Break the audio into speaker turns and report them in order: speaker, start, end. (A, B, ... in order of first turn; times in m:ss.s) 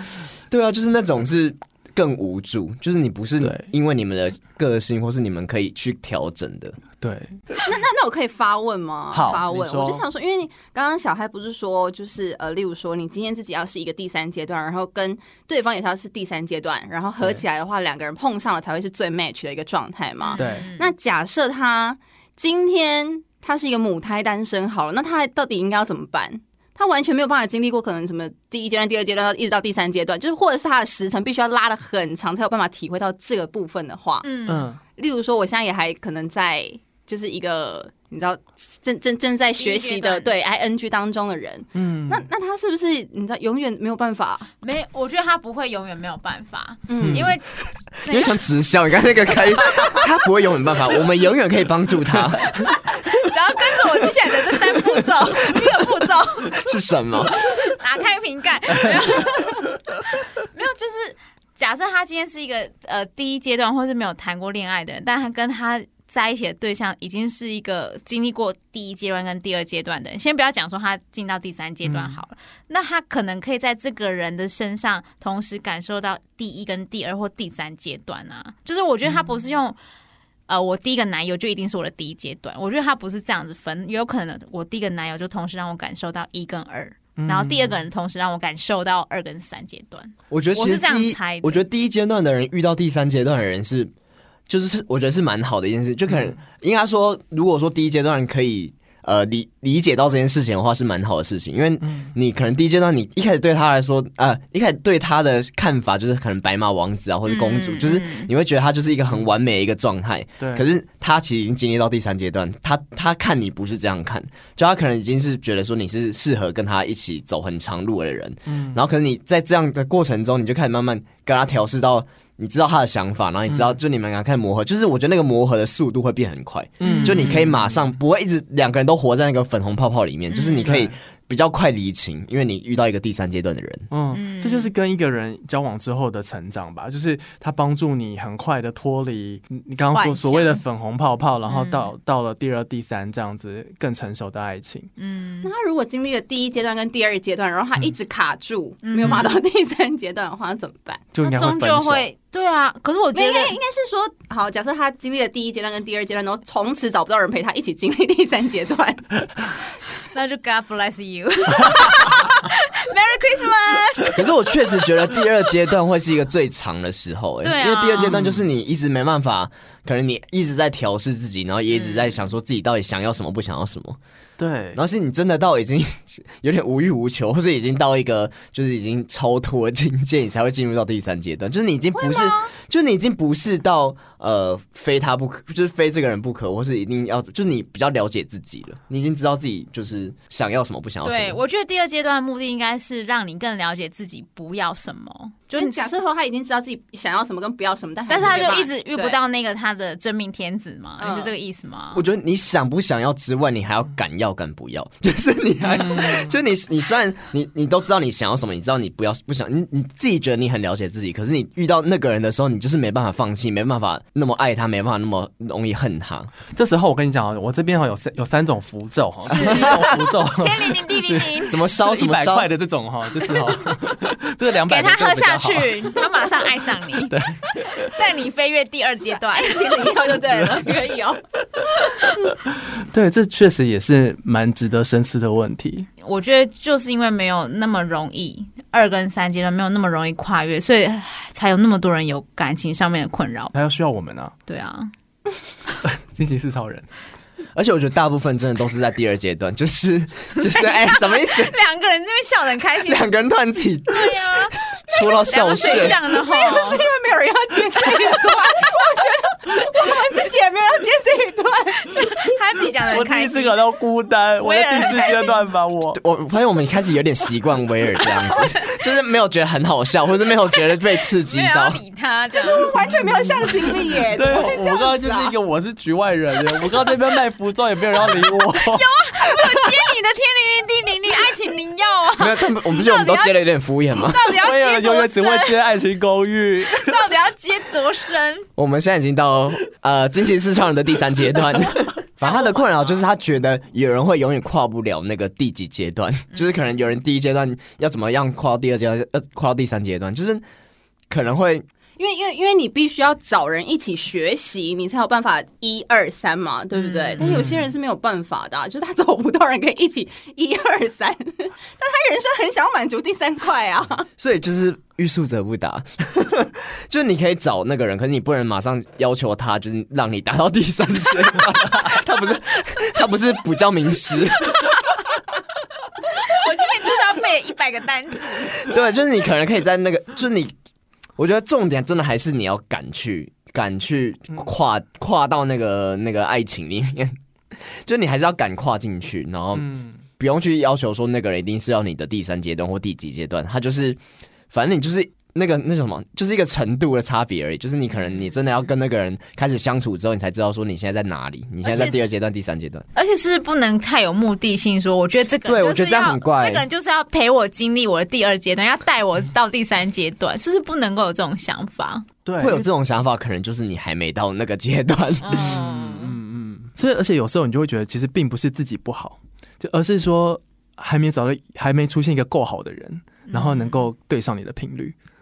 0:00.5-0:06.8 A
0:03.4-0:03.7 B
0:07.0-0:07.4 B
0:07.7-0:34.3 C
0:09.1-0:10.0 B
0:20.2-0:20.9 D
0:20.4-0:20.7 B
0:34.2-0:34.7 D
0:34.5-0:34.8 B
0:35.0-0:44.5 C
0:39.6-0:40.3 D
0:41.8-0:42.3 B
0:44.6-0:47.5 D
0:46.9-0:47.3 C
0:47.0-0:47.3 B
0:48.0-0:52.7 A
0:48.0-0:48.4 D
0:52.6-0:56.7 D
0:56.5-0:57.5 A
0:57.4-1:19.8 D
1:11.8-1:12.2 B
1:20.5-1:31.6 D
1:27.2-1:27.8 B
1:30.3-1:33.9 A
1:34.5-2:13.9 A
1:41.8-1:42.1 B
1:47.3-1:48.3 D
1:50.4-1:50.6 B
1:58.5-1:58.8 B
2:06.8-2:07.7 B
2:06.8-2:07.4 D
2:10.3-2:10.7 D
2:10.6-2:10.9 B
2:13.9-2:24.9 B
2:14.1-2:14.7 D
2:19.9-2:20.6 D
2:21.5-2:21.9 D
2:25.0-2:25.5 D
2:25.4-2:31.1 C
2:28.8-2:29.4 D
2:29.0-2:29.3 B
2:31.1-2:32.0 B
2:31.2-2:33.6 D
2:33.1-2:39.2 C
2:40.1-2:44.5 D
2:44.1-2:54.0 A
2:47.4-2:48.2 D
2:48.1-2:48.4 B
2:51.7-2:52.1 D
2:54.4-2:54.8 B
2:54.7-3:11.4 A
3:02.0-3:02.5 C
3:11.0-3:15.9 D
3:15.5-3:19.2 C
3:18.1-3:22.0 D
3:21.0-3:21.3 C
3:21.9-3:36.3 A
3:36.5-3:46.2 B
3:39.3-3:40.0 A
3:39.3-3:41.6 D
3:41.5-3:42.5 A
3:44.7-3:50.0 D
3:47.1-3:48.0 B
3:49.2-3:51.2 C
3:50.3-3:50.7 B
3:52.5-3:55.9 B
3:56.0-4:03.6 D
4:03.5-4:04.4 B
4:04.5-4:04.9 D
4:05.8-4:06.9 B
4:07.6-4:11.6 A
4:10.4-4:13.1 D
4:12.8-4:16.0 A
4:13.9-4:16.8 D
4:15.6-4:22.1 C
4:22.0-4:23.6 D
4:22.9-4:26.0 B
4:24.4-4:25.4 D
4:25.9-4:31.8 A
4:28.2-4:28.6 D
4:31.2-4:32.7 D
4:32.4-4:35.3 C
4:34.1-4:39.6 B
4:38.5-4:43.4 D
4:42.2-4:44.4 A
4:43.9-4:45.6 D
4:44.4-4:47.1 B
4:46.7-4:48.5 D
4:48.6-5:00.4 A
4:52.2-4:53.0 D
5:01.1-5:01.6 A
5:02.0-5:14.1 C
5:06.8-5:07.2 D
5:07.2-5:07.7 B
5:14.2-5:24.8 A
5:26.2-5:28.6 D
5:28.5-5:30.5 A
5:31.2-5:44.0 A
5:39.6-5:40.0 B
5:44.5-5:52.9 A
5:51.6-5:52.0 D
5:52.9-6:02.1 D
5:55.4-5:56.7 A
6:02.2-6:02.7 B
6:02.4-6:05.5 A
6:05.2-6:06.2 D
6:05.3-6:14.9 B
6:13.3-6:13.9 D